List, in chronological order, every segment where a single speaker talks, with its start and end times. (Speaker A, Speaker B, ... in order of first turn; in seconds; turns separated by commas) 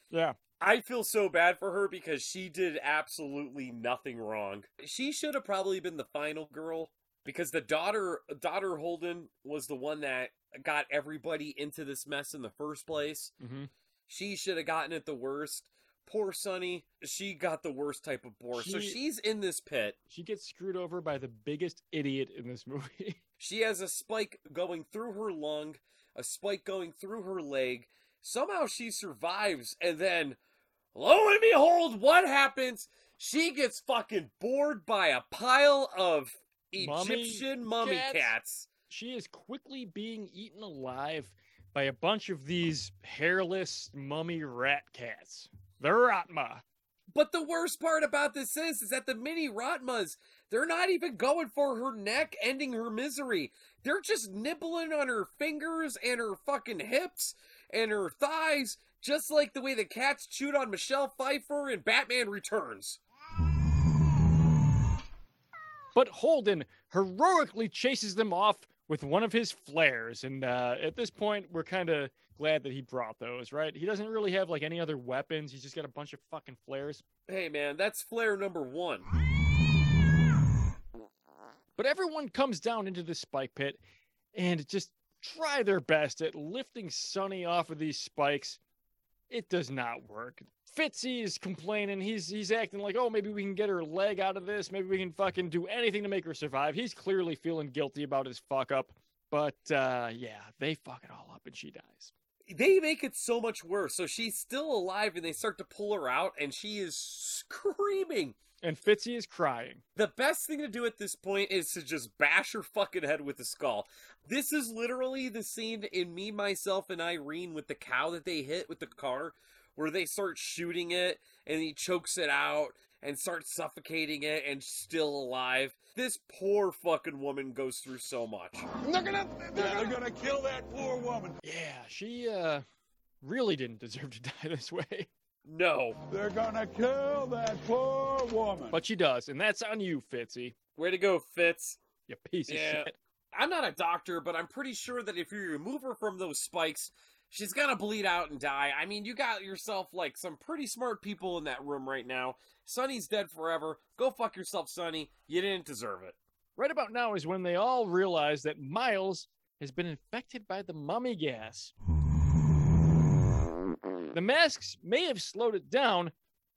Speaker A: 0.1-0.4, Speaker B: 0.6-13.3, Speaker A: 13.4-13.7, Speaker B: 14.1-20.0, Speaker A: 18.5-19.0, Speaker A: 20.1-23.2, Speaker B: 23.4-30.4, Speaker B: 30.9-38.7, Speaker A: 36.8-38.3, Speaker A: 38.9-46.6, Speaker B: 47.1-63.0, Speaker A: 65.9-77.0, Speaker B: 77.3-79.1, Speaker A: 81.8-83.8, Speaker A: 84.3-88.6, Speaker A: 89.3-102.1, Speaker B: 102.5-108.4, Speaker A: 108.6-109.8, Speaker B: 110.0-128.7, Speaker C: 128.7-131.4, Speaker B: 129.5-129.9, Speaker A: 131.4-132.6, Speaker A: 133.2-135.1, Speaker B: 135.4-136.0, Speaker C: 136.1-138.8, Speaker A: 138.7-140.5, Speaker B: 140.8-141.8, Speaker A: 142.1-142.9, Speaker B: 142.5-156.1, Speaker A: 156.6-161.7, Speaker A: 164.1-166.1